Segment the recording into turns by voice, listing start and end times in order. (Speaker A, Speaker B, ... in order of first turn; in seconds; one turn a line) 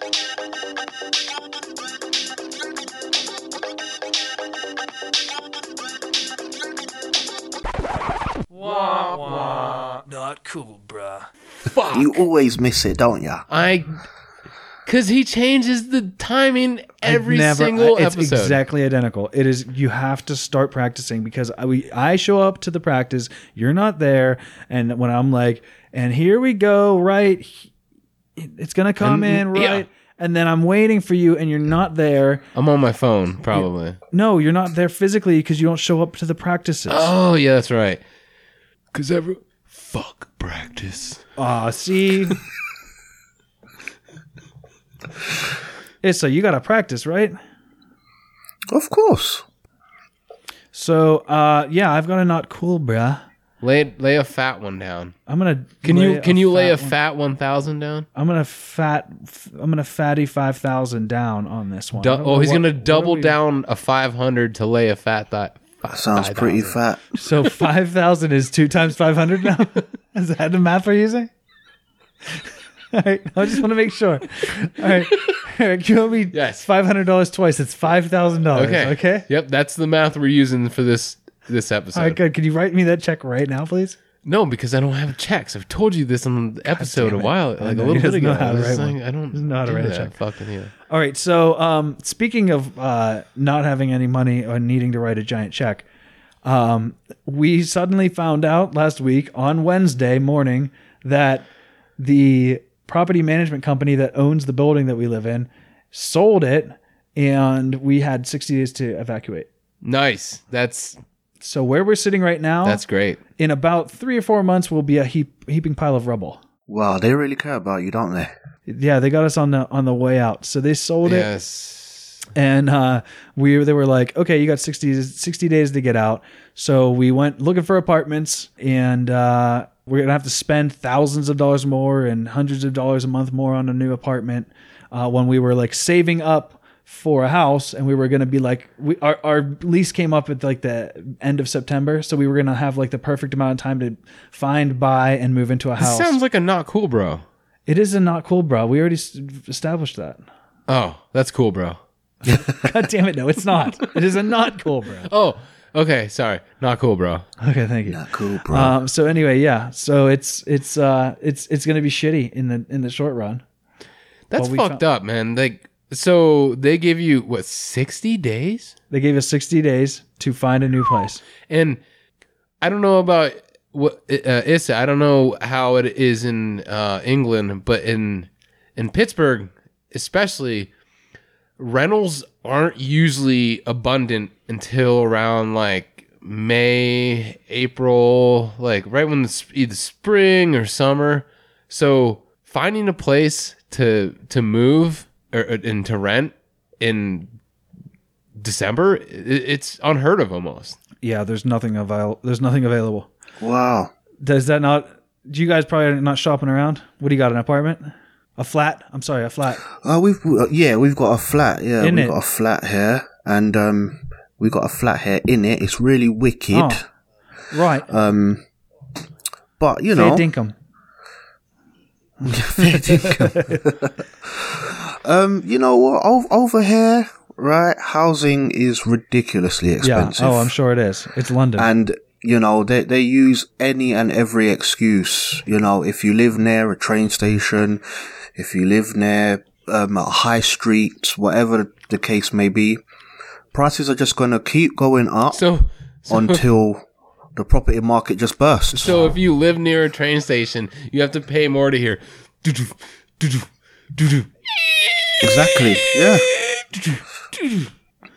Speaker A: 8.5-11.3
Speaker B: 9.2-9.8
Speaker B: 11.6-12.2
Speaker C: 11.9-13.4
Speaker B: 13.5-13.9
Speaker B: 14.8-18.6
Speaker A: 17.0-27.7
Speaker A: 28.4-32.4
Speaker B: 29.0-29.9
Speaker B: 32.5-34.0
Speaker A: 33.5-37.1
Speaker B: 36.9-38.0
Speaker B: 38.9-41.2
Speaker A: 41.4-42.4
Speaker A: 46.0-47.4
Speaker C: 48.7-49.4
Speaker A: 50.7-53.2
Speaker B: 53.6-55.1
Speaker A: 55.3-56.9
Speaker B: 55.8-58.1
Speaker A: 58.1-63.3
Speaker B: 62.0-66.8
Speaker C: 65.9-67.0
Speaker A: 67.2-71.3
Speaker A: 72.9-79.2
Speaker B: 76.3-76.6
Speaker B: 78.5-82.2
Speaker A: 81.9-84.0
Speaker B: 84.2-90.7
Speaker A: 86.7-90.1
Speaker A: 90.9-95.8
Speaker A: 96.4-101.5
Speaker A: 102.0-109.5
Speaker B: 109.8-111.0
Speaker A: 111.4-112.8
Speaker B: 112.6-113.2
Speaker A: 113.4-116.4
Speaker C: 116.7-118.3
Speaker A: 118.7-121.3
Speaker B: 121.0-122.2
Speaker A: 122.3-146.2
Speaker B: 145.8-147.2
Speaker A: 147.7-150.2
Speaker B: 150.7-151.8
Speaker A: 152.3-155.1
Speaker B: 155.1-157.2
Speaker A: 157.4-163.4
Speaker C: 157.8-158.8
Speaker B: 164.3-168.7
Speaker A: 164.4-164.8
Speaker A: 168.9-171.2
Speaker B: 171.5-171.8
Speaker B: 172.6-180.7
Speaker B: 181.6-197.3
Speaker B: 198.4-200.8
Speaker A: 201.0-203.1
Speaker C: 203.4-203.9
Speaker A: 204.2-209.6
Speaker C: 209.8-216.8
Speaker A: 211.8-212.2
Speaker A: 216.5-216.8
Speaker A: 217.5-217.9
Speaker C: 217.9-218.4
Speaker C: 219.6-220.3
Speaker A: 219.9-220.5
Speaker C: 222.2-230.5
Speaker A: 222.3-223.6
Speaker A: 229.8-231.7
Speaker C: 231.6-237.8
Speaker C: 238.3-242.8
Speaker C: 243.5-245.4
Speaker B: 245.3-246.5
Speaker C: 246.1-249.1
Speaker B: 248.7-255.3
Speaker C: 255.2-256.2
Speaker B: 256.1-257.7